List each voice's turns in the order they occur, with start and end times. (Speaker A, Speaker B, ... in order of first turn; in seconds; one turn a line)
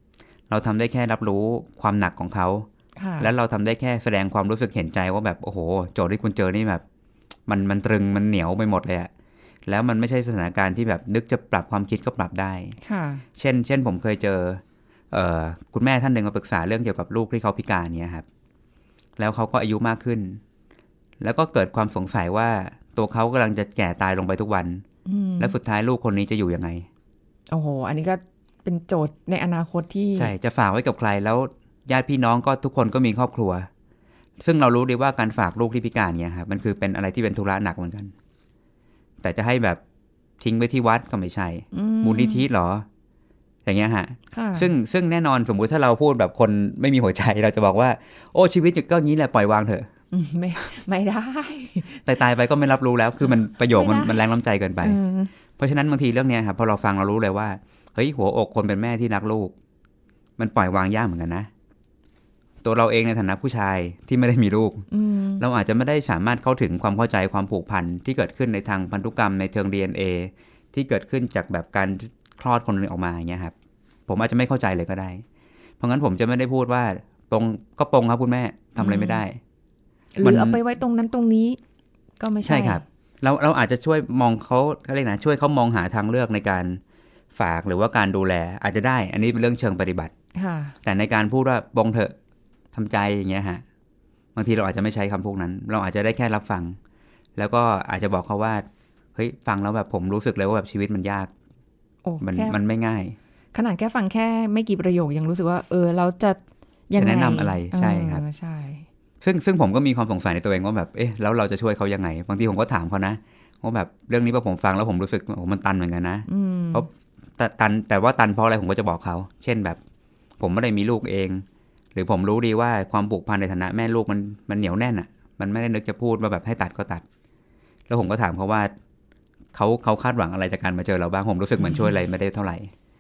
Speaker A: 0.5-2.7
Speaker B: 3.0-3.3
Speaker A: 3.2-6.8
Speaker A: 7.5-9.1
Speaker A: 9.7-12.8
Speaker B: 12.8-13.2
Speaker A: 13.3-18.2
Speaker A: 19.2-20.4
Speaker A: 21.2-24.8
Speaker B: 25.1-25.5
Speaker A: 25.4-26.9
Speaker B: 27.5-30.3
Speaker A: 30.1-33.7
Speaker A: 34.4-38.1
Speaker A: 39.2-39.8
Speaker A: 40.4-42.9
Speaker B: 41.7-42.5
Speaker A: 43.6-49.9
Speaker B: 44.3-44.7
Speaker B: 50.1-52.1
Speaker A: 52.0-55.0
Speaker B: 53.2-54.2
Speaker B: 54.8-55.3
Speaker A: 55.6-59.5
Speaker A: 60.4-61.5
Speaker A: 62.6-64.8
Speaker B: 64.9-65.4
Speaker A: 65.4-73.5
Speaker A: 74.1-75.2
Speaker A: 75.8-79.4
Speaker B: 78.8-79.2
Speaker B: 80.2-81.6
Speaker A: 80.2-80.6
Speaker B: 82.2-82.8
Speaker A: 82.4-86.8
Speaker A: 87.3-90.1
Speaker B: 90.3-90.8
Speaker A: 90.8-92.1
Speaker A: 92.7-93.6
Speaker A: 94.3-96.8
Speaker A: 97.3-101.3
Speaker B: 102.0-102.6
Speaker A: 102.2-103.2
Speaker B: 103.5-106.4
Speaker B: 106.9-108.8
Speaker A: 107.0-108.2
Speaker A: 109.2-119.8
Speaker B: 116.3-116.9
Speaker A: 120.4-127.0
Speaker A: 127.9-128.7
Speaker A: 129.5-132.7
Speaker B: 131.6-131.9